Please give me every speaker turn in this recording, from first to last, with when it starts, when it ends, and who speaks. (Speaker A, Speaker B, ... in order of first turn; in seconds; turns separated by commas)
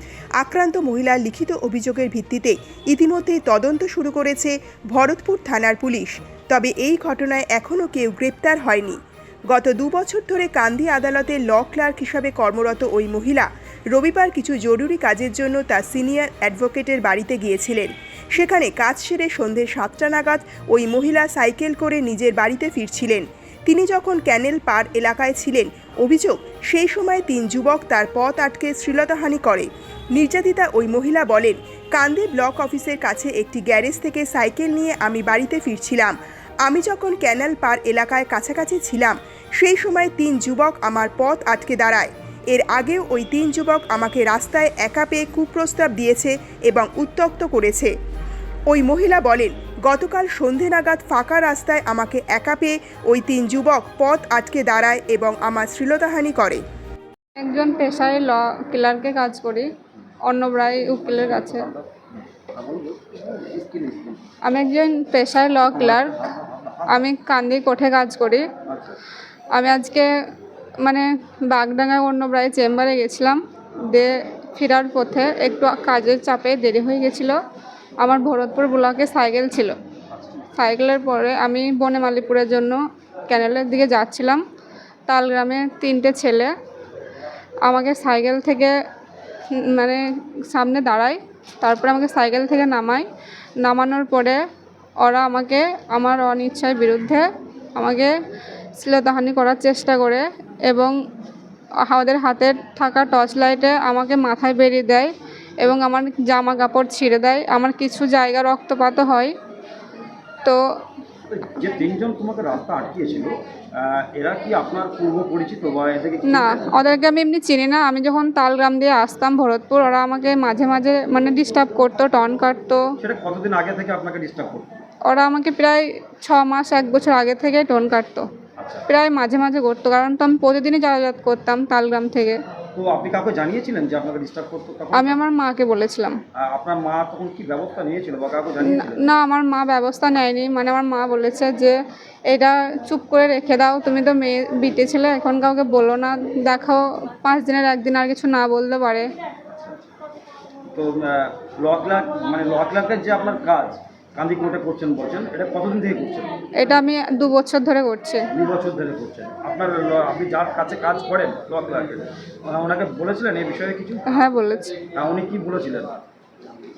Speaker A: 0.4-47.9, Speaker A: 48.7-56.6, Speaker B: 57.4-59.7, Speaker B: 60.2-61.7, Speaker C: 61.2-64.2, Speaker B: 64.4-66.1, Speaker C: 65.9-66.9, Speaker B: 66.9-68.5, Speaker C: 68.7-69.0, Speaker B: 69.5-70.1, Speaker B: 70.8-77.4, Speaker B: 78.0-79.8, Speaker C: 80.1-80.4, Speaker B: 80.5-84.4, Speaker B: 85.1-86.5, Speaker B: 87.6-88.7, Speaker B: 89.6-93.0, Speaker B: 93.6-94.4, Speaker B: 95.0-98.1, Speaker B: 98.8-101.0, Speaker B: 101.8-109.3, Speaker C: 111.3-116.7, Speaker B: 116.2-122.9, Speaker C: 123.0-124.8, Speaker B: 125.0-128.3, Speaker C: 128.6-128.9, Speaker B: 128.9-132.4, Speaker C: 132.7-135.2, Speaker B: 134.9-136.2, Speaker C: 136.3-139.1, Speaker B: 138.6-141.8, Speaker B: 142.3-149.1, Speaker C: 149.5-149.8, Speaker C: 150.7-156.4, Speaker B: 156.5-158.3, Speaker C: 158.3-164.2, Speaker B: 164.1-164.8, Speaker C: 164.9-166.0